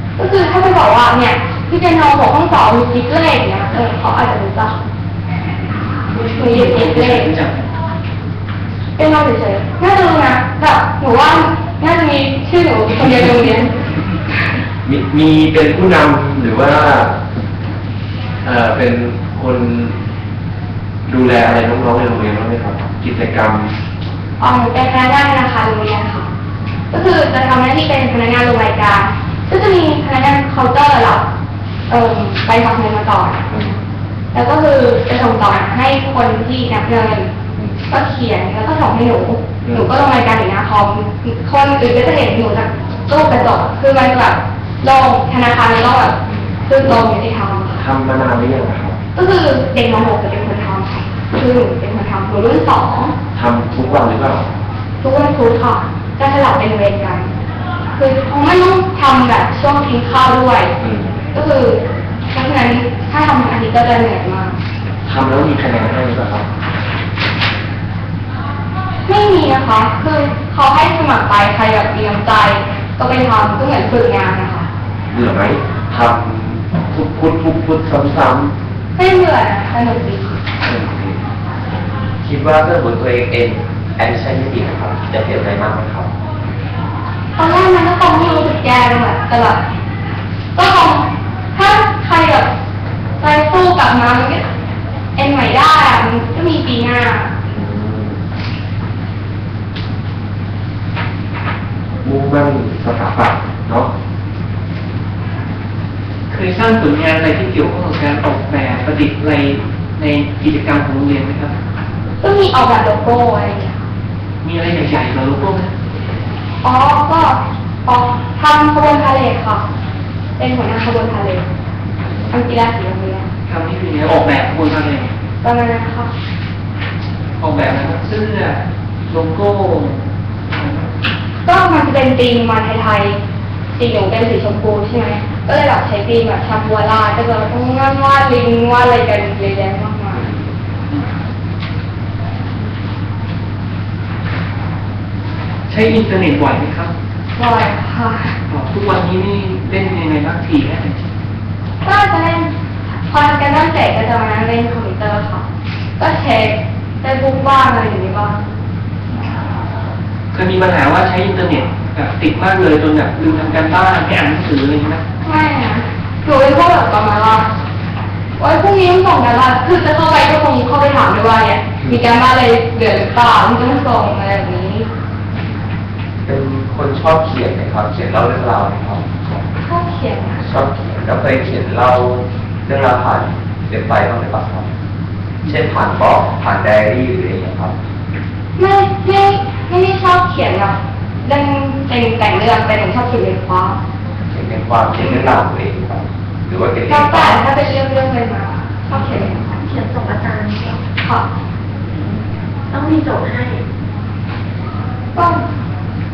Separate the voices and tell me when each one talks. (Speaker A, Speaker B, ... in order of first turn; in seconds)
Speaker A: 0.2-4.8, 6.3-7.3, 8.9-13.7, 24.4-26.3, 26.9-31.2, 31.9-33.5, 34.3-37.3, 37.8-47.9, 49.1-53.1, 55.0-57.3, 58.0-60.7, 61.3-64.5, 69.0-74.7, 79.0-80.4, 87.4-89.6, 90.5-92.5, 93.2-94.5, 95.2-97.3, 112.2-113.9, 116.6-119.6, 120.4-121.5, 122.3-123.3, 125.4-126.1, 131.4-133.2, 133.7-140.3, 147.3-148.4, 151.8-152.5, 153.1-155.4, 156.0-158.4, 165.2-167.5, 168.4-174.9, 179.6-180.4, 188.6-193.8, 195.0-195.3, 196.9-199.4, 201.0-201.3, 205.1-205.4
Speaker B: 6.1-7.7, 106.3-111.5, 114.4-115.7, 123.5-125.1, 127.4-130.9, 145.7-146.9, 148.5-151.0, 160.3-165.0
Speaker C: 14.8-17.1, 18.4-19.9, 21.1-23.7, 33.5-33.8, 39.6-39.9, 43.0-43.6, 46.2-47.0, 47.7-49.0, 53.3-54.5, 60.8-61.2, 65.0-66.5, 75.1-78.5, 80.6-81.2, 97.5-98.2, 102.0-103.9
Speaker D: 82.2-86.1, 176.2-179.4, 180.4-184.7, 185.4-187.7, 194.3-197.4
Speaker E: 199.6-200.8, 202.7-203.6